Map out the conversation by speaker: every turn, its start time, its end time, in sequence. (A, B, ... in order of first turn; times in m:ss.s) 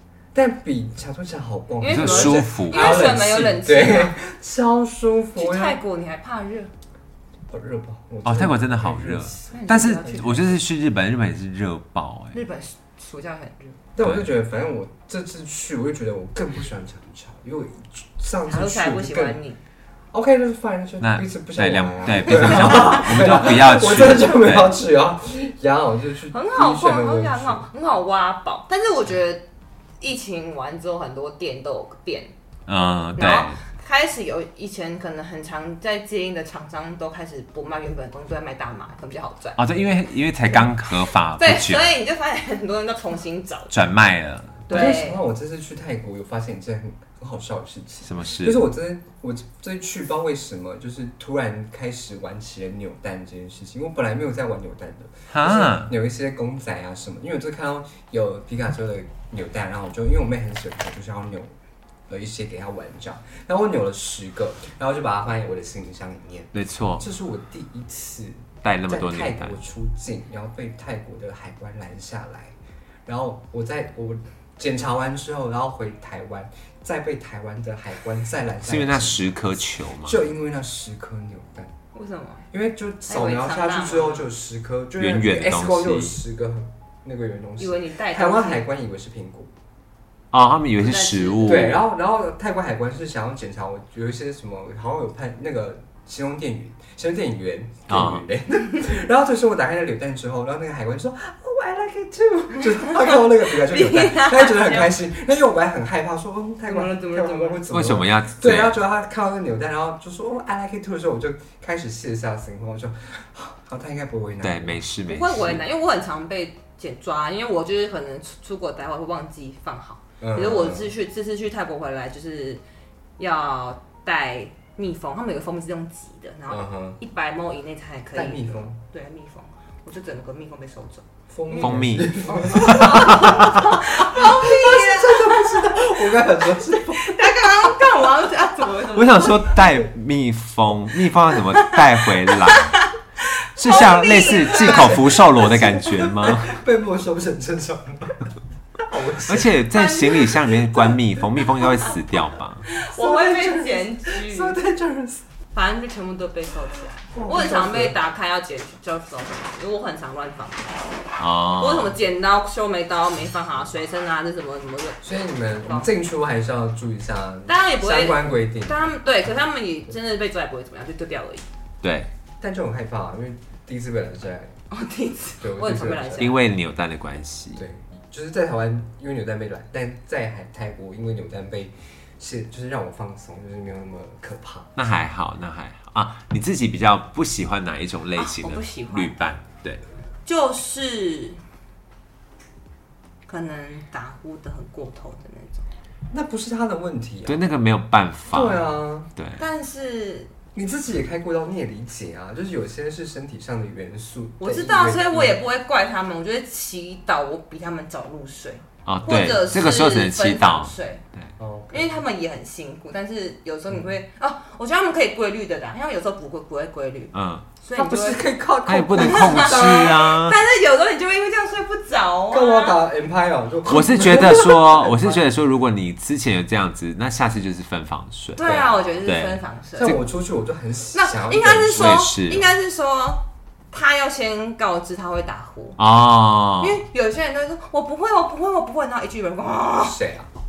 0:00.3-0:05.8 A
0:01.8-0:04.2 B
0:01.9-0:03.0 C
0:05.4-0:06.7 B
0:07.5-0:10.5 A
0:08.2-0:12.4 C
0:09.5-0:10.6 B
0:12.3-0:13.8 B
0:14.0-0:19.4 A
0:14.0-0:14.3 C
0:18.5-0:19.6 B
0:20.1-0:27.6 A
0:21.0-0:24.8 C
0:22.6-0:23.0 B
0:26.3-0:29.5 B
0:30.0-0:32.3 B
0:32.7-0:33.6 C
0:33.2-0:39.8 B
0:39.6-0:41.9 C
0:40.5-0:43.8 B
0:43.7-0:44.9 C
0:44.7-0:45.2 B
0:44.7-1:01.5 A
0:48.0-0:48.6 C
0:55.3-0:55.9 C
1:02.1-1:12.6 A
1:06.5-1:07.1 C
1:08.6-1:09.6 C
1:13.1-1:19.3 A
1:18.6-1:20.2 C
1:20.0-1:21.7 A
1:21.9-1:22.4 B
1:22.5-1:29.5 A
1:23.1-1:24.3 B
1:25.0-1:26.2 C
1:27.6-1:28.6 B
1:30.3-1:31.8 C
1:30.8-1:31.8 B
1:31.4-1:54.8 A
1:37.9-1:38.2 C
1:42.8-1:45.0 B
1:46.7-1:47.6 B
1:47.7-1:48.8 C
1:54.4-1:55.6 C
1:55.1-2:02.6 B
2:00.2-2:00.9 A
2:03.2-2:16.0 B
2:06.5-2:07.0 A
2:08.1-2:08.8 A
2:11.3-2:17.7 A
2:11.6-2:13.7 C
2:16.7-2:19.6 B
2:18.9-2:22.8 C
2:21.4-2:25.2 B
2:23.6-2:26.6 C
2:24.4-2:28.3 A
2:28.8-2:29.6 A
2:29.2-2:32.7 C
2:29.7-2:30.9 B
2:31.6-2:31.9 B
2:32.6-2:34.6 B
2:32.7-2:35.2 A
2:35.5-2:41.0 B
2:37.1-2:38.0 A
2:41.2-2:41.9 C
2:41.6-2:45.1 B
2:45.0-2:48.8 A
2:47.5-2:51.5 B
2:51.8-2:52.1 C
2:52.4-2:54.6 A
2:54.7-2:56.4 B
2:55.4-2:56.4 A
2:56.2-2:57.6 C
2:57.6-3:04.8 A
3:04.8-3:09.8 C
3:08.2-3:09.2 B
3:10.3-3:11.4 B
3:13.3-3:15.7 B
3:16.1-3:17.4 A
3:17.3-3:19.4 C
3:18.3-3:19.1 A
3:19.4-3:20.3 B
3:20.6-3:25.4 A
3:24.4-3:31.0 B
3:28.9-3:31.3 C
3:31.4-3:32.0 A
3:31.7-3:38.2 B
3:37.1-3:37.5 C
3:37.8-3:40.1 A
3:38.7-3:40.4 C
3:39.0-3:42.8 B
3:42.3-3:45.2 A
3:43.7-3:48.5 C
3:48.4-3:50.0 B
3:48.4-3:48.8 A
3:49.0-3:50.0 C
3:49.8-3:52.0 A
3:50.9-3:55.8 B
3:51.7-3:52.5 C
3:55.8-3:56.8 C
3:56.6-4:00.0 B
3:59.8-4:00.3 A